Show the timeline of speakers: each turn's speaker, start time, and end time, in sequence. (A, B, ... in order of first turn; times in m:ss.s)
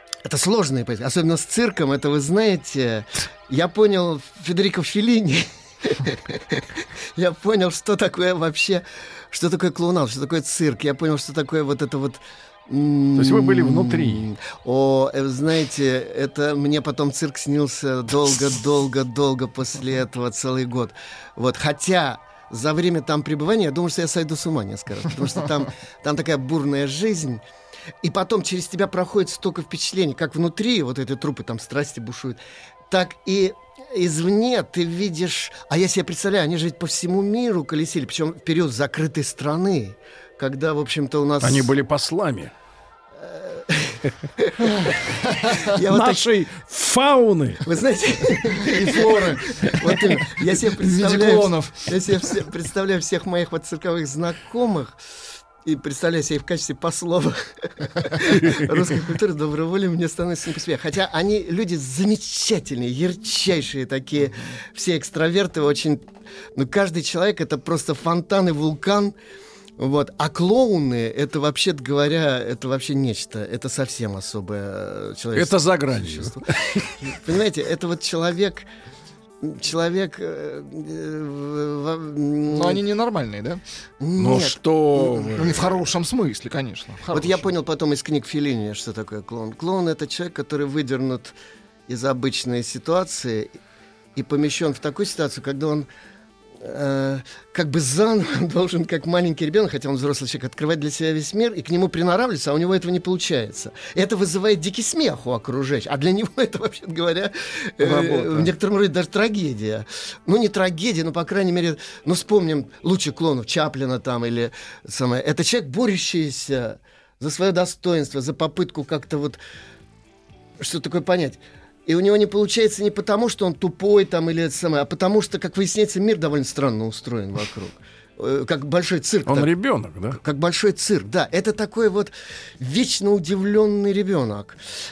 0:00.2-0:27.4 A
0:13.2-0:14.2 B
0:28.0-0:32.4 A
0:32.9-0:41.7 A
0:41.4-0:42.5 B
0:43.2-0:46.3 A
0:45.3-0:45.6 C
0:45.9-0:47.6 B
0:47.6-0:55.0 A
0:48.5-0:52.3 C
0:55.6-1:09.1 A
1:09.8-1:18.6 A
1:15.3-1:16.9 B
1:19.4-1:22.8 A
1:22.5-1:23.6 C
1:24.0-1:25.5 A
1:24.2-1:25.6 B
1:25.3-1:27.5 C
1:27.1-1:31.3 A
1:31.9-1:33.5 A
1:34.2-1:35.9 A
1:36.6-1:59.4 A
1:47.8-1:48.5 C
2:00.6-2:09.5 A
2:09.2-2:10.2 B
2:10.1-2:14.6 A